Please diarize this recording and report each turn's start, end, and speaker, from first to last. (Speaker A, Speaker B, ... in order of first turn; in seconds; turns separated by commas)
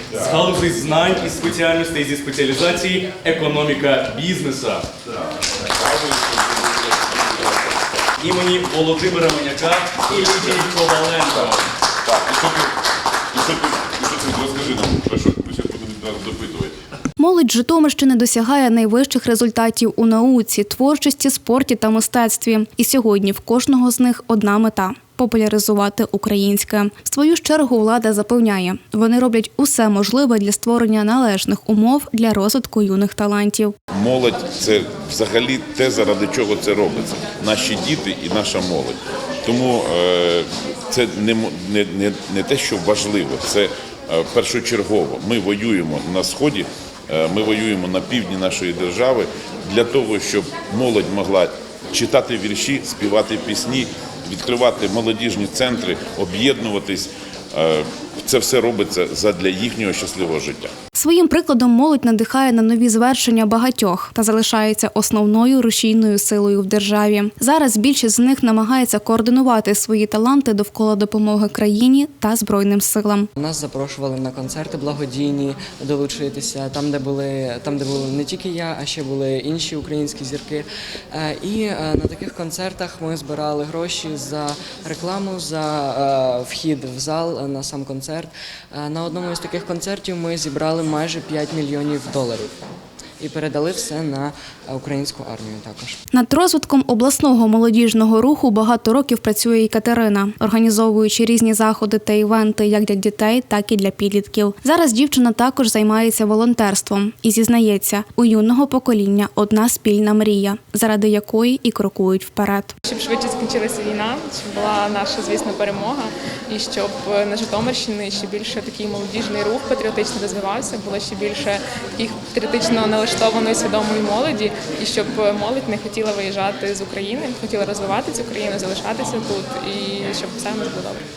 Speaker A: 0.1-4.9, Speaker B: 5.5-7.4, Speaker A: 8.2-11.6, Speaker B: 12.0-12.8, Speaker B: 13.3-16.8, Speaker C: 17.2-33.7, Speaker B: 33.9-60.7, Speaker C: 60.9-73.3, Speaker D: 73.4-92.5, Speaker D: 93.2-96.0, Speaker C: 96.1-112.7, Speaker E: 112.8-131.0